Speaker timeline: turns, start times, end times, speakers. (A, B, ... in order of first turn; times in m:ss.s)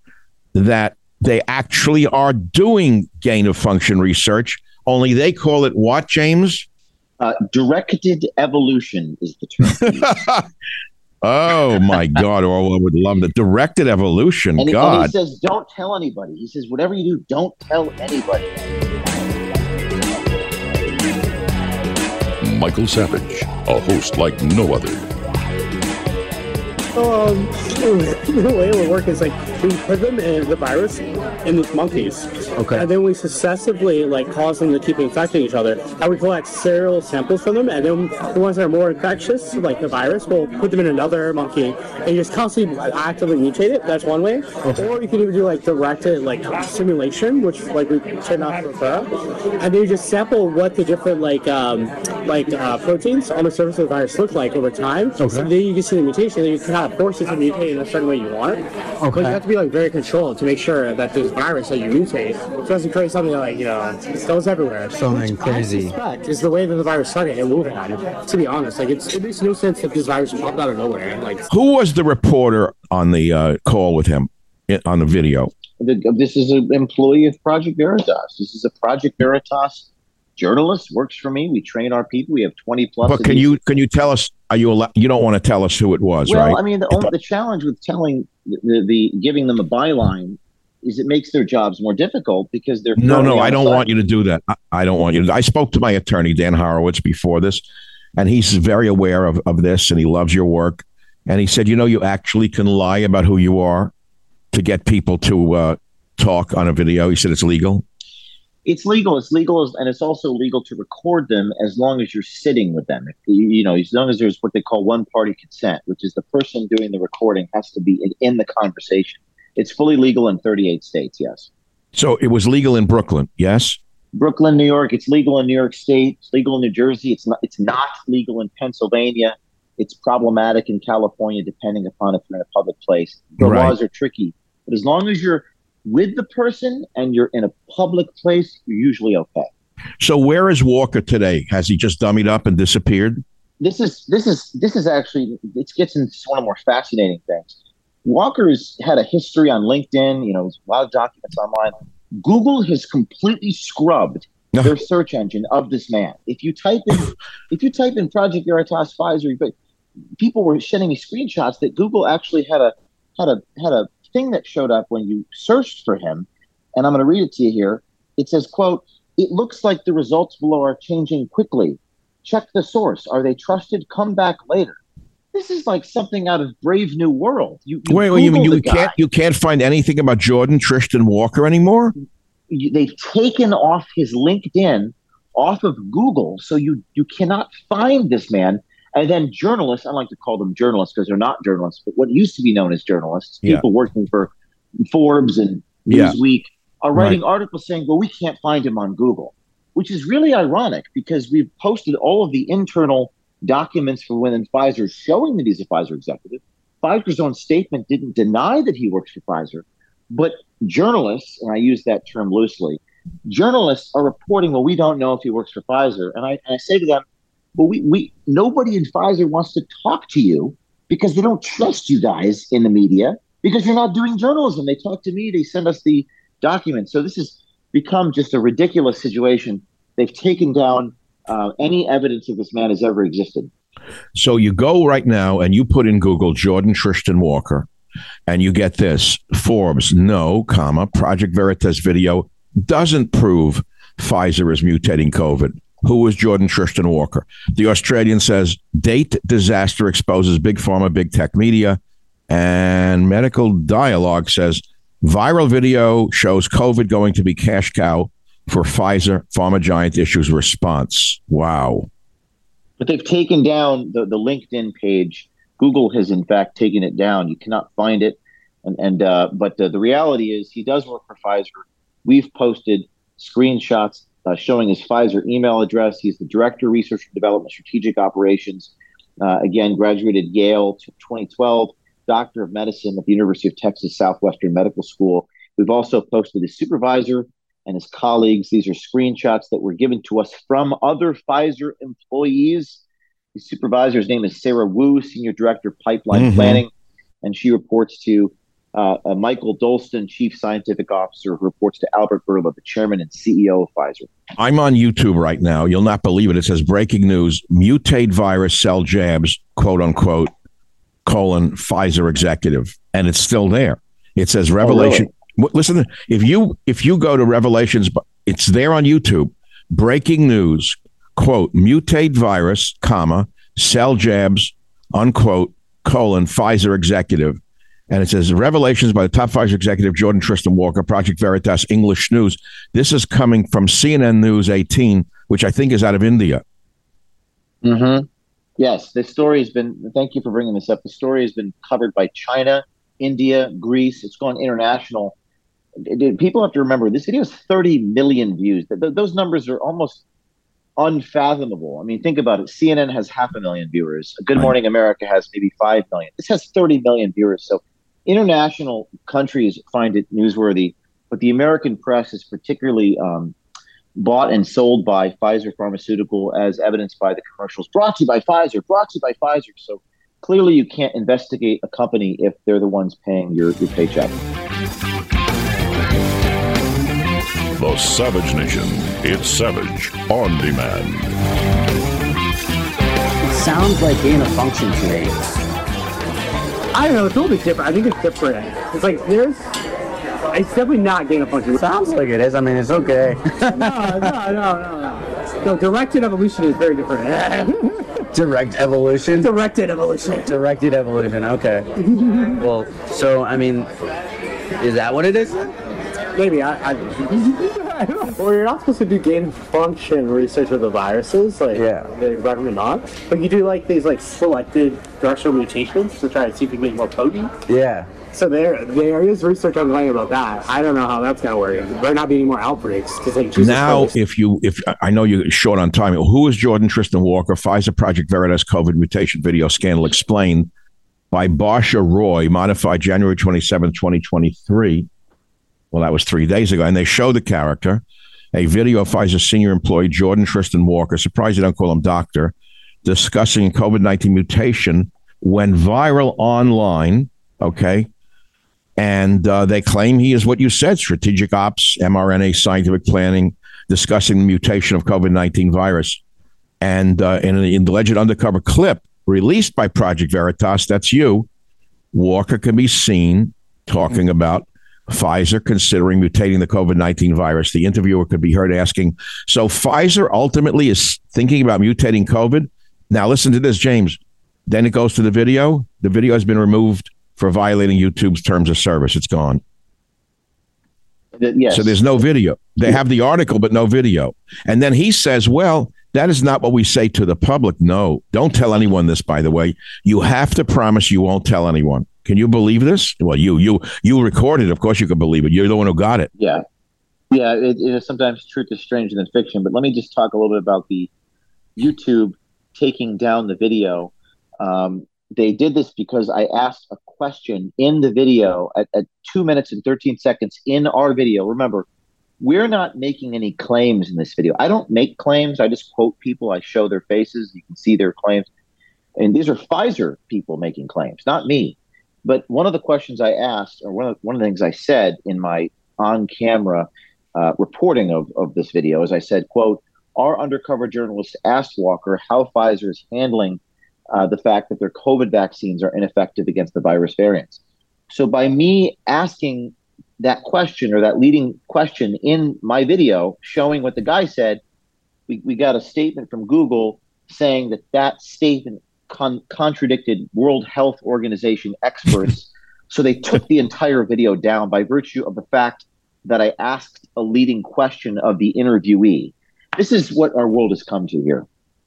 0:00.5-0:06.6 A
0:07.2-0:10.1 B
0:09.6-0:10.4 A
0:11.2-0:15.1 A
0:14.6-0:18.5 B
0:22.4-0:25.0 C
0:26.9-0:49.1 D
0:32.6-0:32.8 E
0:49.6-1:11.4 D
0:55.2-0:55.5 E
0:59.0-0:59.4 E
1:05.0-1:05.9 E
1:11.5-1:15.5 A
1:15.8-1:23.5 B
1:23.0-1:27.0 A
1:26.2-1:33.8 B
1:33.0-1:37.6 A
1:38.2-1:43.9 A
1:44.5-1:47.8 A
1:48.6-2:01.5 B
2:01.9-2:03.8 A
2:04.1-2:19.5 B
2:13.4-2:13.8 A
2:20.0-2:23.2 A
2:23.6-2:39.5 B
2:40.2-2:54.8 B
2:55.3-2:59.0 B
2:57.9-3:01.9 A
3:02.5-3:37.0 B
3:15.9-3:16.2 A
3:16.9-3:17.2 A
3:37.6-3:53.5 B
3:54.1-3:57.7 A
3:58.3-4:11.8 A
4:12.3-4:21.9 A
4:22.8-4:52.8 B
4:53.3-4:56.7 B
4:56.1-4:56.6 A
4:57.2-5:04.1 B
5:04.4-5:10.3 A
5:11.0-5:27.4 A
5:14.6-5:15.1 B
5:27.9-5:36.4 A
5:37.6-5:38.0 B
5:38.6-5:45.1 B
5:45.8-5:50.0 B
5:50.8-6:03.4 B
6:04.0-6:14.2 B
6:17.6-6:21.1 C
6:23.2-6:25.2 E
6:26.7-6:29.4 D
6:30.3-6:31.6 D
6:31.6-6:34.1 E
6:33.5-6:38.0 D
6:38.1-6:39.3 E
6:39.2-6:40.3 D
6:40.2-6:41.7 E
6:42.0-6:42.3 D
6:42.4-6:43.7 E
6:44.6-6:45.4 E
6:46.2-6:57.3 D
6:51.5-6:51.8 E
6:57.5-6:57.9 E
6:58.1-7:03.9 D
7:03.4-7:10.5 A
7:11.1-7:14.9 A
7:15.7-7:17.8 A
7:18.3-7:27.9 A
7:28.8-7:36.0 A
7:36.6-7:41.3 A
7:41.9-7:59.4 A
8:01.2-8:01.8 B
8:01.5-8:16.1 A
8:16.2-8:16.4 B
8:17.1-8:20.9 B
8:21.6-8:31.7 B
8:32.2-8:38.3 B
8:39.0-8:53.4 B
8:53.9-9:04.4 B
9:05.1-9:21.2 B